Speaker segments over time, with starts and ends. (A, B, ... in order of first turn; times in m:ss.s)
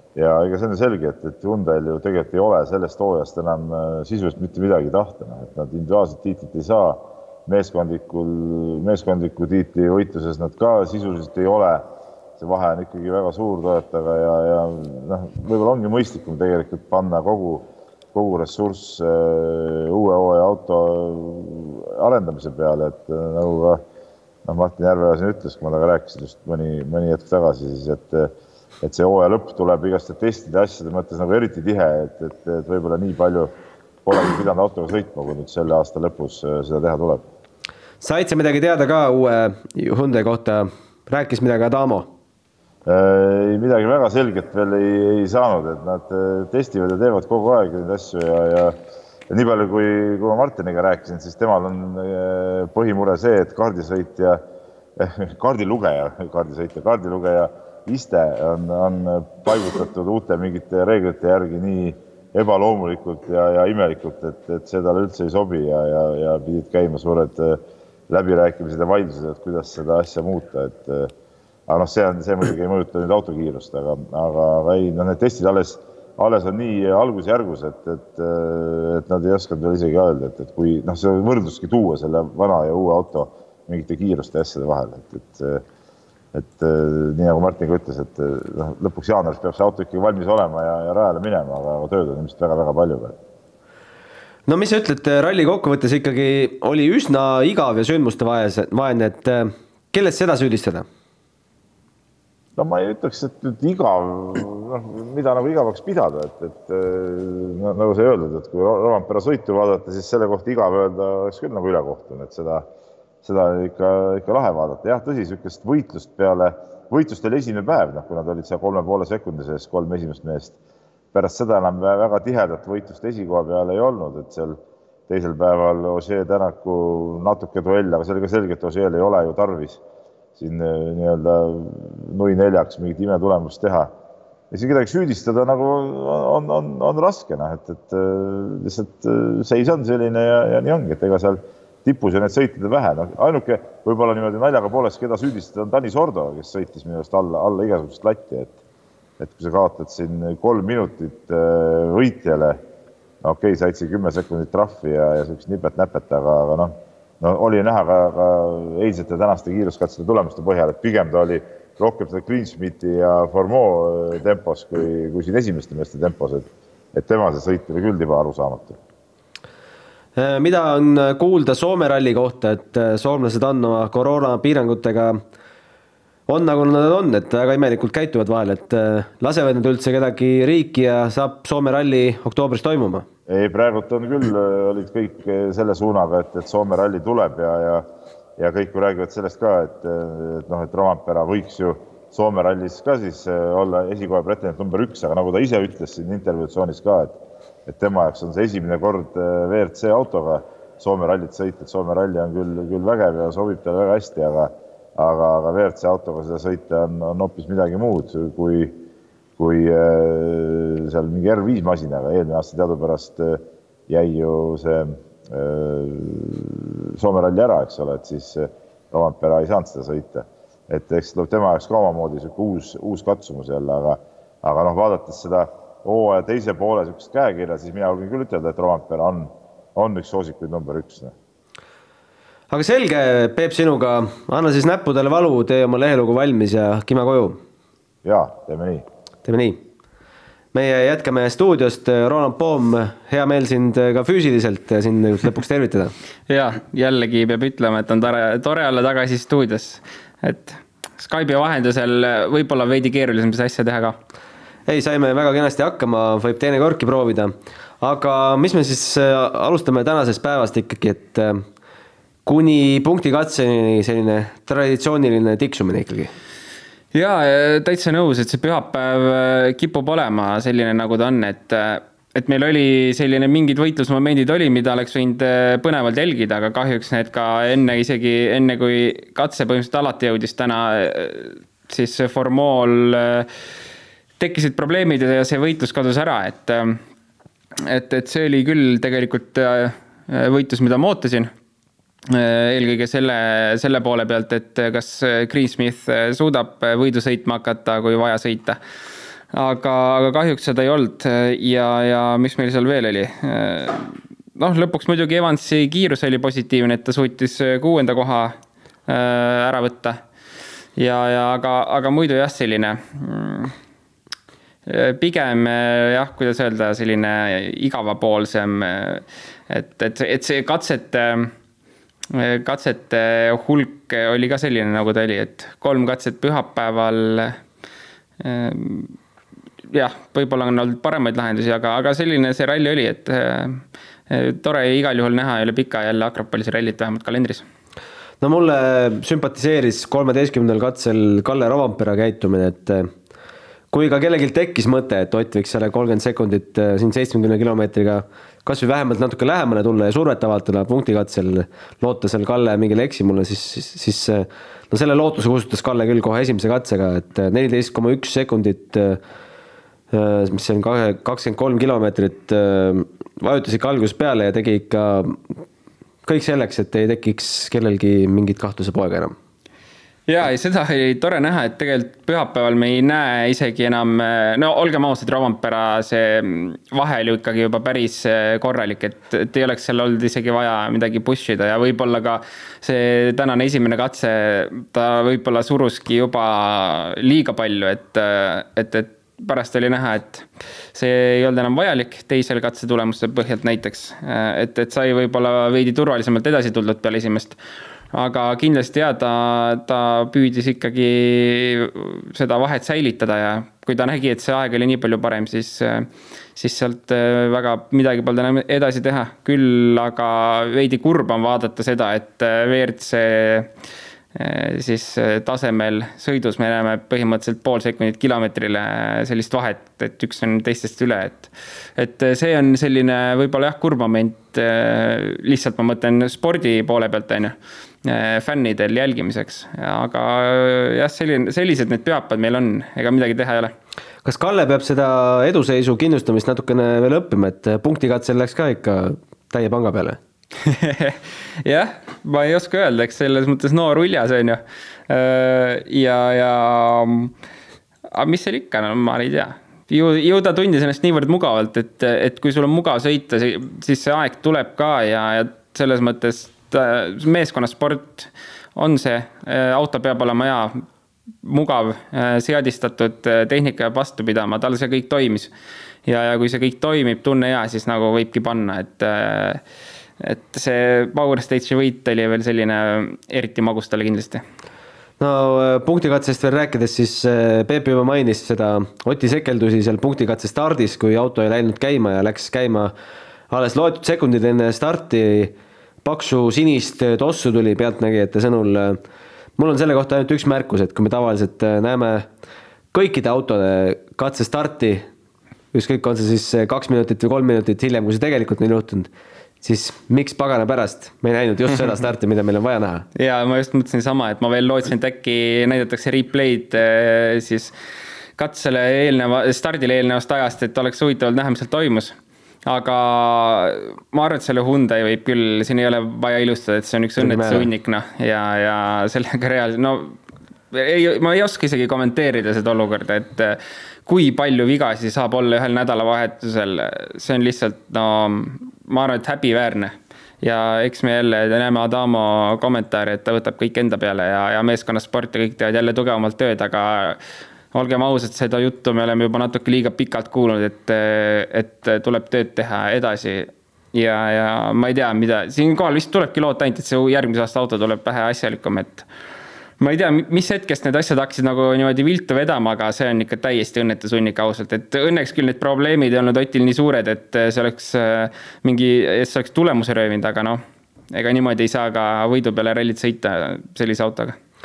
0:00.1-0:11.9 A
0:12.4-0:23.8 A
0:24.4-0:33.5 A
0:34.0-0:37.2 A
0:38.0-0:42.1 B
0:42.8-0:48.8 A
0:49.3-0:54.4 A
0:55.0-1:11.1 A
1:11.7-1:25.6 A
1:26.3-1:33.2 A
1:34.5-1:40.8 B
1:42.6-1:52.7 A
1:53.2-2:00.6 A
2:01.1-2:09.8 A
2:10.4-2:13.9 A
2:14.5-2:28.5 A
2:29.2-2:32.6 A
2:33.2-2:48.8 A
2:50.2-2:55.2 B
2:56.3-3:03.0 B
3:03.3-3:28.8 A
3:29.4-3:51.1 A
3:52.5-3:57.4 B
3:58.0-3:58.8 A
3:59.2-3:59.6 B
4:00.5-4:05.9 B
4:06.3-4:14.0 C
4:14.7-4:21.4 B
4:22.2-4:26.1 B
4:26.9-4:43.3 C
4:44.2-4:46.8 C
4:47.6-4:51.3 C
4:52.1-4:58.6 C
4:59.3-5:08.3 C
5:08.9-5:10.0 C
5:10.8-5:13.5 C
5:14.6-5:21.3 C
5:22.1-5:27.4 C
5:28.2-5:28.9 C
5:29.7-5:37.4 C
5:38.2-5:42.9 B
5:43.7-5:59.0 B
5:59.9-6:05.4 B
6:06.0-6:09.1 B
6:10.1-6:37.4 C
6:37.9-6:53.5 C
6:54.1-7:13.5 C
7:14.0-7:20.0 B
7:20.4-7:27.1 C
7:27.9-7:40.6 C
7:41.2-7:45.3 C
7:45.8-7:49.4 C
7:50.0-7:54.2 C
7:55.0-8:02.7 B
8:03.3-8:08.8 B
8:09.4-8:12.0 B
8:12.7-8:14.9 B
8:15.5-8:18.9 B
8:19.4-8:22.9 B
8:23.0-8:27.5 C
8:28.2-8:40.0 C
8:37.0-8:37.5 B
8:40.5-8:57.0 C
8:57.5-9:08.8 C
9:09.6-9:24.2 C